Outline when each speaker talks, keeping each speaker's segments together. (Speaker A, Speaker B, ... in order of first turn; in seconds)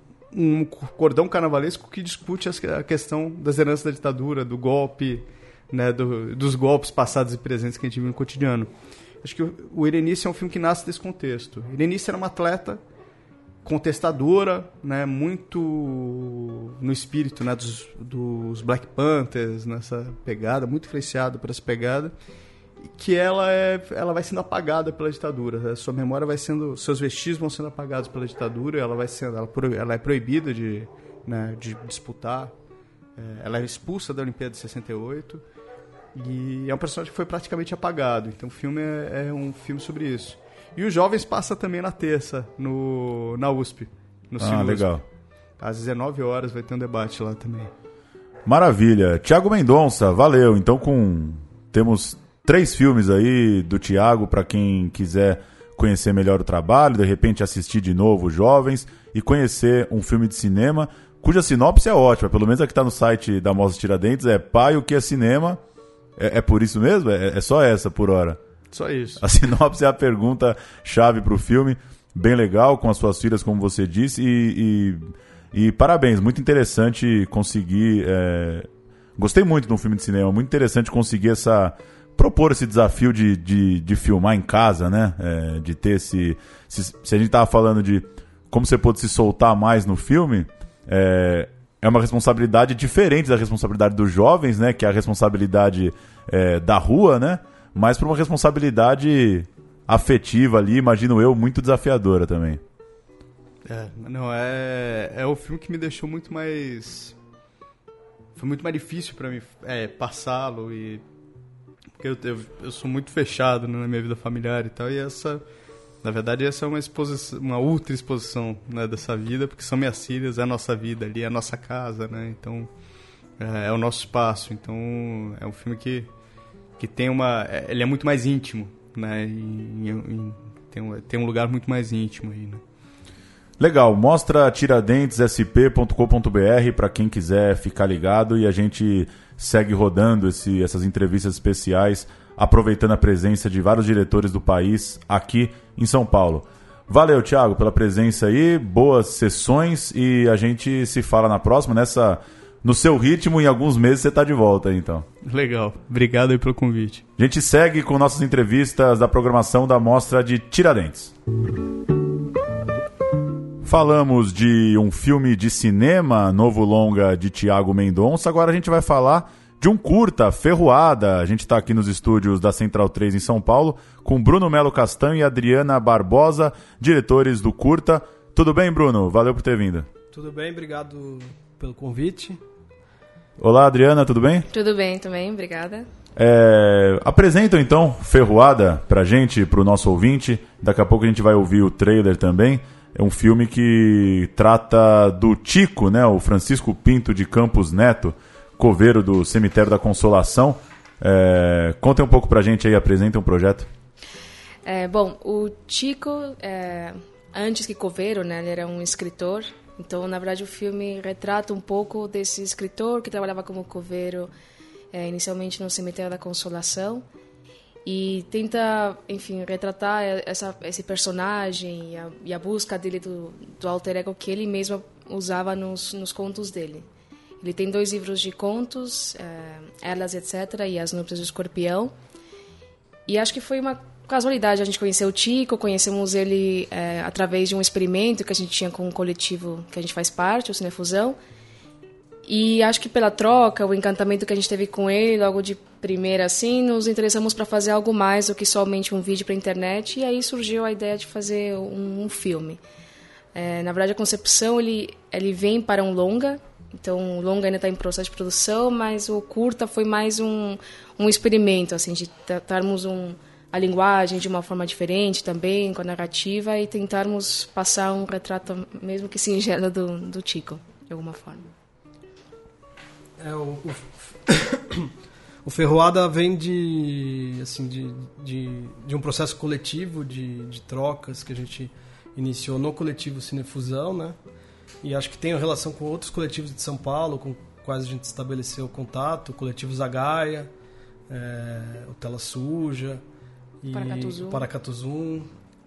Speaker A: 0.3-8.7, 9.2-12.8, 13.6-22.1, 22.8-32.5, 33.2-35.4, 36.1-45.0, 45.6-47.7, 68.7-69.2, 103.7-107.2, 108.4-111.0, 112.0-115.4, 116.0-122.7, 123.4-126.1, 126.8-132.6, 155.2-157.0
Speaker B: 44.4-45.0, 48.5-65.6, 66.2-68.4, 69.2-75.0, 75.5-102.6, 133.6-155.1, 157.2-161.1, 163.6-179.9, 183.4-184.5, 186.2-203.7
Speaker C: 180.1-182.4, 273.2-274.9, 275.4-284.2, 284.8-290.5, 291.1-293.0, 293.6-295.3
Speaker D: 184.5-185.9, 204.7-214.3, 214.9-217.1, 217.8-226.9, 227.4-231.9, 233.1-241.2, 242.2-252.6, 253.3-271.5, 293.7-294.5